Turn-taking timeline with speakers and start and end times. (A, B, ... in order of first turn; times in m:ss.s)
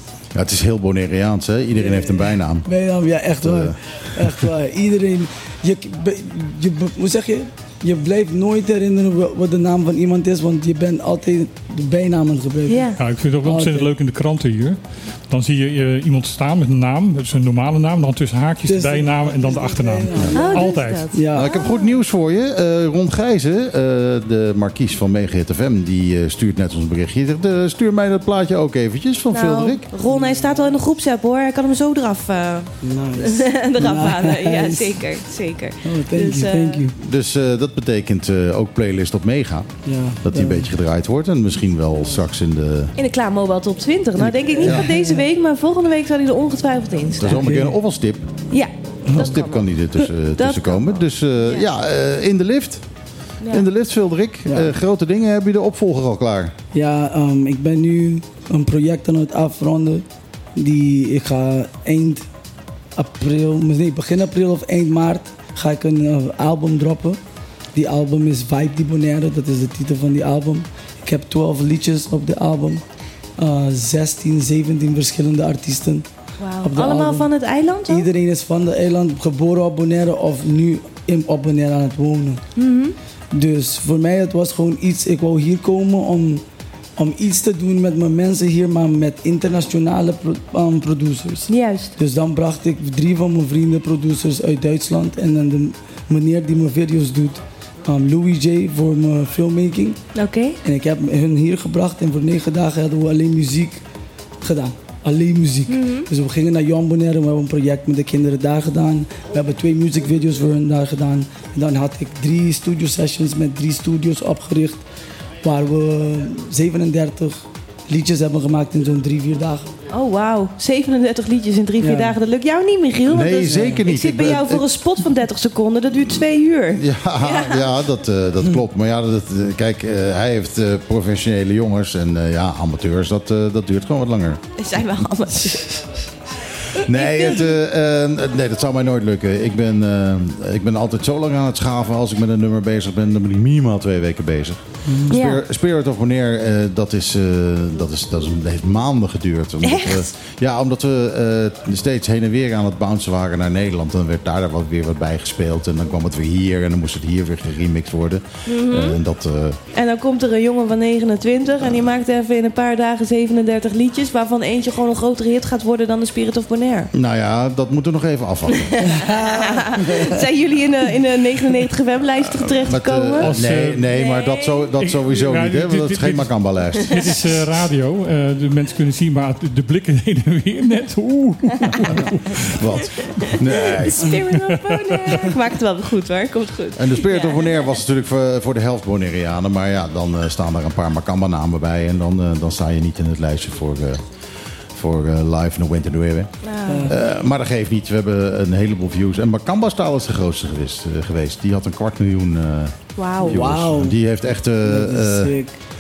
0:00.3-0:02.7 A
0:01.8-0:12.9 B
0:03.4-0:04.5 A
0:12.7-0:13.0 C
0:13.0-0:21.1 D
0:13.4-0:13.9 B
0:18.7-0:21.5 B
0:20.3-0:21.9 C
0:21.3-0:29.9 A
0:29.3-0:36.8 C
0:30.1-0:30.7 B
0:32.8-0:35.1 B
0:35.8-0:37.0 B
0:37.0-0:43.0 A
0:39.9-0:40.7 B
0:43.0-0:47.5 C
0:44.2-0:45.2 B
0:44.6-0:44.9 A
0:47.2-0:48.3 A
0:47.3-0:47.8 B
0:48.5-0:51.7 C
0:49.1-0:52.8 A
0:53.4-0:53.7 C
0:53.5-0:56.5 A
0:54.5-0:54.7 B
0:56.7-1:02.3 B
1:03.0-1:07.2 B
1:07.7-1:12.8 B
1:13.4-1:16.1 B
1:16.4-1:18.1 C
1:16.6-1:17.3 B
1:17.9-1:22.4 B
1:22.6-1:23.0 C
1:23.3-1:26.4 B
1:27.0-1:40.0 B
1:31.5-1:31.9 C
1:40.2-1:40.6 C
1:40.6-1:43.8 B
1:44.4-1:54.8 B
1:45.7-1:46.1 C
1:55.4-1:59.7 B
1:59.9-2:07.7 C
2:01.8-2:02.2 B
2:03.1-2:04.7 A
2:03.5-2:03.8 B
2:06.8-2:14.4 A
2:14.6-2:15.8 C
2:16.8-2:17.5 C
2:16.8-2:39.6 A
2:24.9-2:25.1 B
2:25.1-2:25.4 C
2:29.6-2:30.1 C
2:38.5-2:39.0 C
2:39.8-2:46.9 C
2:46.9-2:48.9 A
2:48.8-2:50.2 B
2:48.9-2:53.3 C
2:52.4-2:57.4 A
2:53.2-2:53.9 D
2:53.9-2:54.7 C
2:54.8-3:02.6 D
3:02.5-3:04.2 A
3:03.6-3:07.8 C
3:04.5-3:05.1 D
3:06.8-3:14.0 A
3:14.7-3:16.3 A
3:16.4-3:16.9 C
3:16.7-3:17.0 B
3:16.9-3:25.4 A
3:23.0-3:23.4 C
3:23.2-3:24.0 B
3:24.6-3:25.5 B